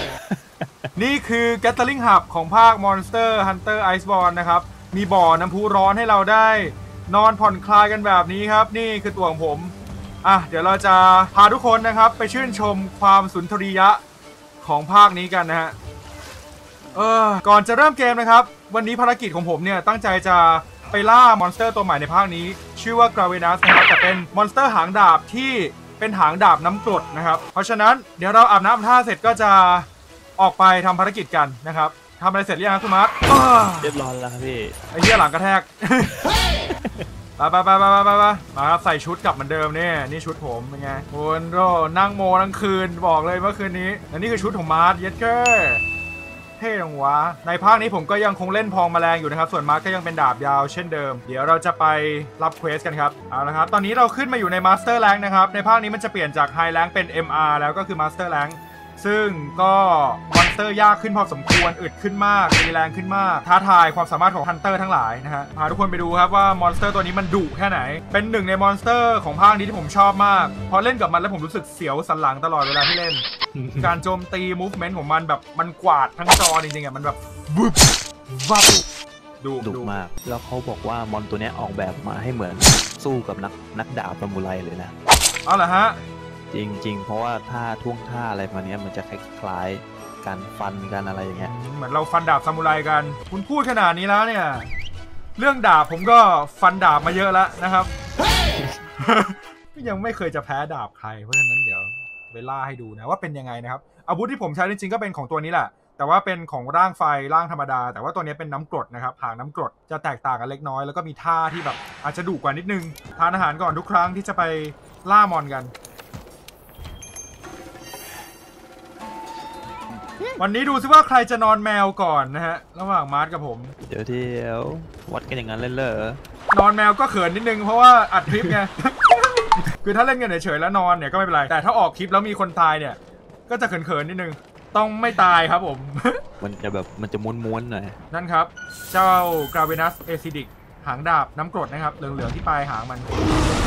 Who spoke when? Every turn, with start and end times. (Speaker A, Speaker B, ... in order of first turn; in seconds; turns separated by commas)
Speaker A: 0.3-0.7, Speaker B: 0.9-14.0, Speaker B: 14.6-15.7, Speaker B: 16.9-29.9, Speaker B: 30.4-33.9, Speaker A: 33.8-34.8, Speaker B: 34.9-36.2, Speaker B: 37.4-45.8, Speaker B: 46.6-73.2, Speaker A: 73.5-74.0, Speaker B: 73.8-78.7, Speaker B: 79.4-79.9, Speaker A: 79.6-84.9, Speaker B: 85.4-86.0, Speaker A: 86.5-91.5, Speaker B: 91.3-94.7, Speaker B: 95.4-97.9, Speaker B: 99.0-115.7, Speaker B: 120.4-123.7, Speaker A: 123.8-126.2, Speaker B: 126.5-136.2, Speaker A: 136.4-138.0, Speaker B: 138.1-143.1